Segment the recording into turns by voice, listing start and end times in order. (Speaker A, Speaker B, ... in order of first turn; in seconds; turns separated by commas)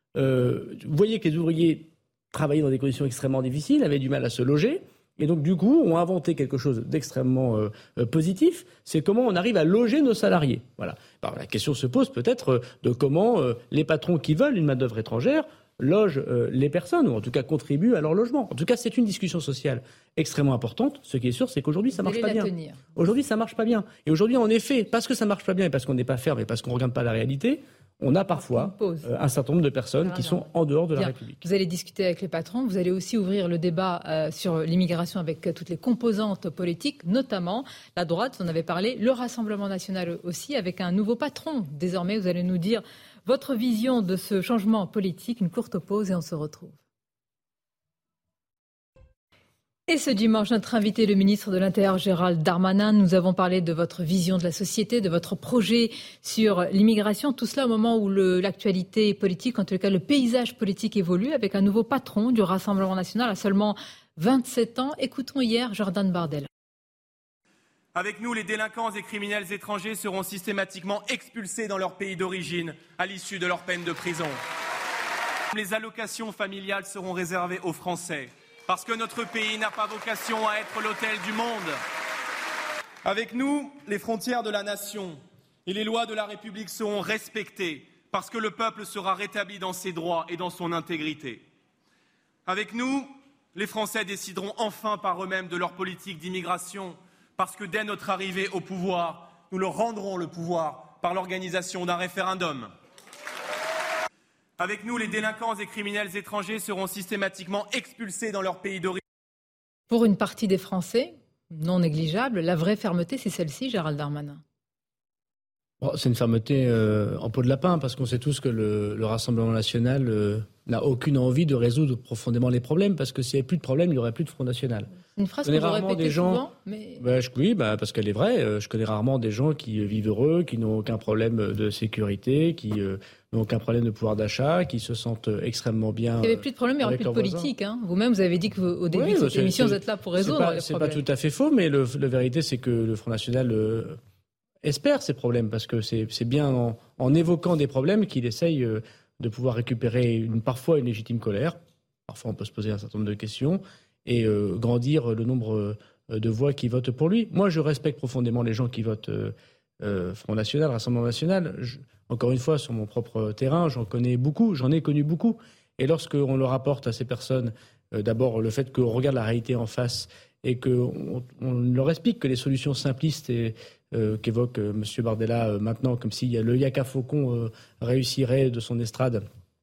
Speaker A: 0.1-31.4, Speaker B: 21.9-22.8, Speaker B: 28.3-29.1, Speaker B: 30.0-46.8, Speaker B: 49.9-66.5, Speaker C: 67.9-74.4, Speaker C: 75.5-81.8, Speaker C: 83.0-91.4, Speaker C: 92.5-102.7, Speaker C: 104.6-109.0, Speaker B: 109.9-114.4, Speaker A: 115.8-124.9, Speaker B: 125.1-127.0, Speaker A: 125.4-126.4, Speaker A: 127.0-137.5, Speaker B: 136.2-141.0, Speaker A: 138.9-144.0, Speaker A: 144.6-179.2